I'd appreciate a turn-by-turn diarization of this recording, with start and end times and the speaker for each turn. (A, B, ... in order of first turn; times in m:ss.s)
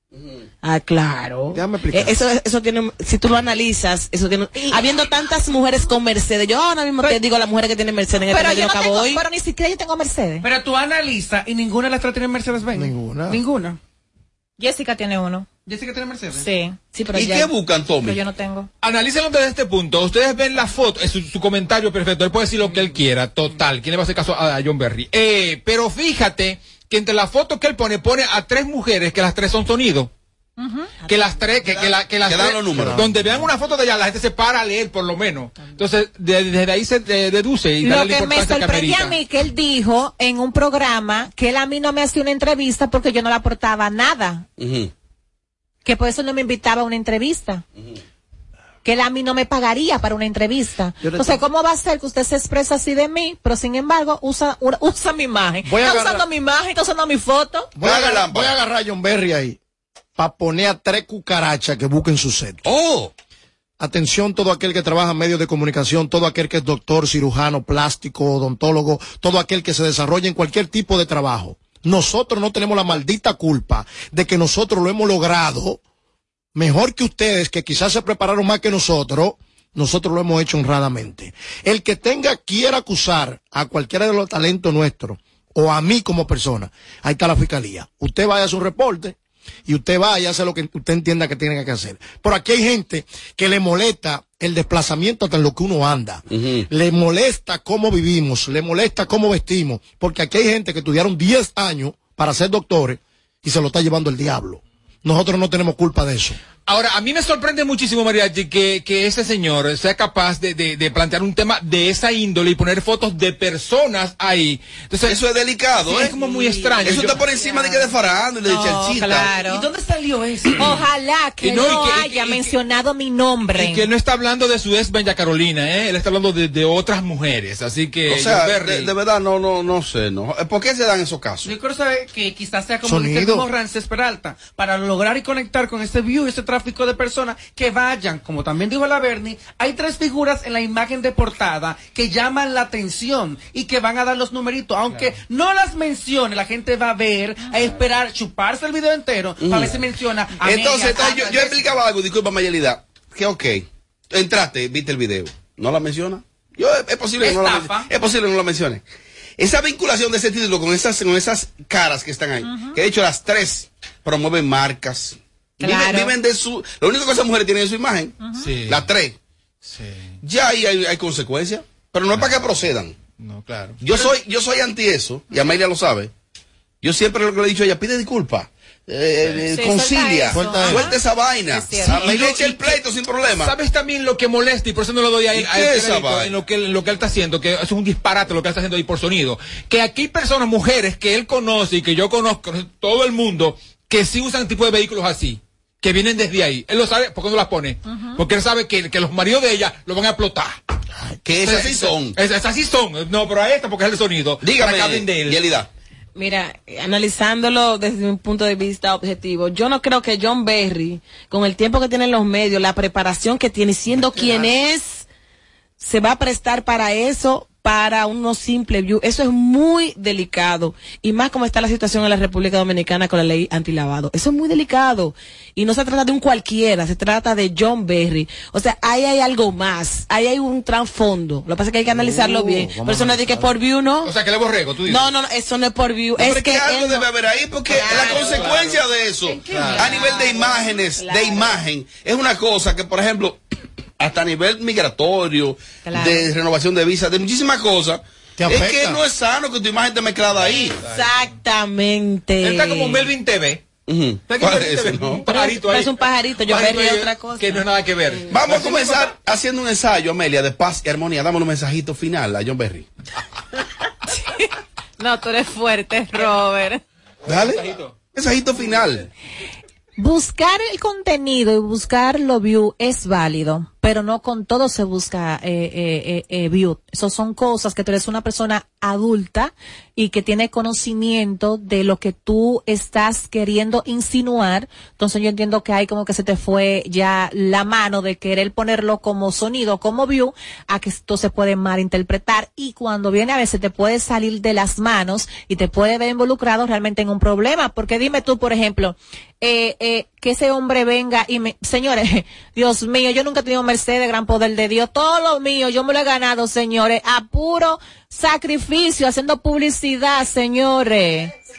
0:00.6-0:09.2 A
0:01.5-0:02.2 B
0:04.5-0:04.8 C
0:08.3-0:10.4 C
0:10.4-0:13.8 D
0:12.7-0:13.4 B
0:14.6-0:15.5 C
0:15.6-0:16.5 D
0:16.4-0:16.8 C
0:16.9-0:17.5 A
0:17.1-0:18.2 E
0:18.0-0:18.7 C
0:18.8-0:30.1 F
0:30.6-0:30.9 C
0:31.0-0:39.2 F
0:31.1-0:31.5 A
0:32.2-0:33.1 E
0:32.7-0:33.5 B
0:37.8-0:44.4 C
0:44.6-0:44.9 E
0:45.8-0:47.6 C
0:48.8-0:57.7 C
0:51.0-0:51.4 B
0:55.6-0:56.2 B
0:57.8-0:59.6 B
0:57.8-0:58.5 E
1:00.2-1:02.6 B
1:02.6-1:03.1 E
1:03.8-1:15.8 B
1:16.5-1:29.2 B
1:29.7-1:46.4 B
1:36.3-1:36.6 E
1:46.6-1:55.2 F
1:55.0-1:56.1 E
1:55.8-1:57.2 F
1:56.8-1:59.3 E
1:58.4-1:59.6 C
1:59.2-2:00.8 D
2:00.6-2:03.8 C
2:01.4-2:02.4 F
2:03.5-2:08.9 F
2:08.1-2:11.5 E
2:11.4-2:31.8 D
2:12.8-2:13.5 B
2:29.4-2:29.8 E
2:30.4-2:38.8 E
2:37.2-2:37.9 D
2:39.4-2:49.2 E
2:42.4-2:42.8 C
2:45.6-2:46.1 C
2:48.2-2:48.5 C
2:48.4-2:48.8 F
2:49.6-2:50.2 F
2:50.2-2:52.9 E
2:53.2-2:53.8 F
2:53.8-2:56.1 E
2:56.8-3:03.5 E
2:59.5-3:02.2 C
3:00.3-3:00.9 B
3:01.9-3:02.8 F
3:03.4-3:20.6 F
3:05.3-3:06.3 E
3:21.2-3:22.2 E
3:21.4-3:25.4 F
3:24.4-3:25.7 E
3:26.1-3:35.0 A
3:35.8-3:54.1 A
3:51.9-3:53.5 B
3:54.0-3:55.1 F
3:54.8-3:57.1 A
3:56.2-4:03.4 E
3:57.8-3:58.4 C
3:57.8-3:58.8 F
3:59.5-3:59.8 D
3:59.5-4:00.4 C
3:59.5-3:59.8 F
4:00.0-4:01.6 A
4:04.0-4:10.8 E
4:05.8-4:06.3 C
4:08.4-4:09.0 B
4:10.4-4:11.3 F
4:10.8-4:13.1 A
4:12.4-4:13.6 F
4:13.9-4:15.3 E
4:14.3-4:19.1 F
4:15.3-4:17.6 A
4:18.3-4:22.8 E
4:25.0-4:26.8 C
4:27.2-4:27.6 E
4:27.3-4:27.9 F
4:28.1-4:29.1 E
4:30.0-5:11.3 C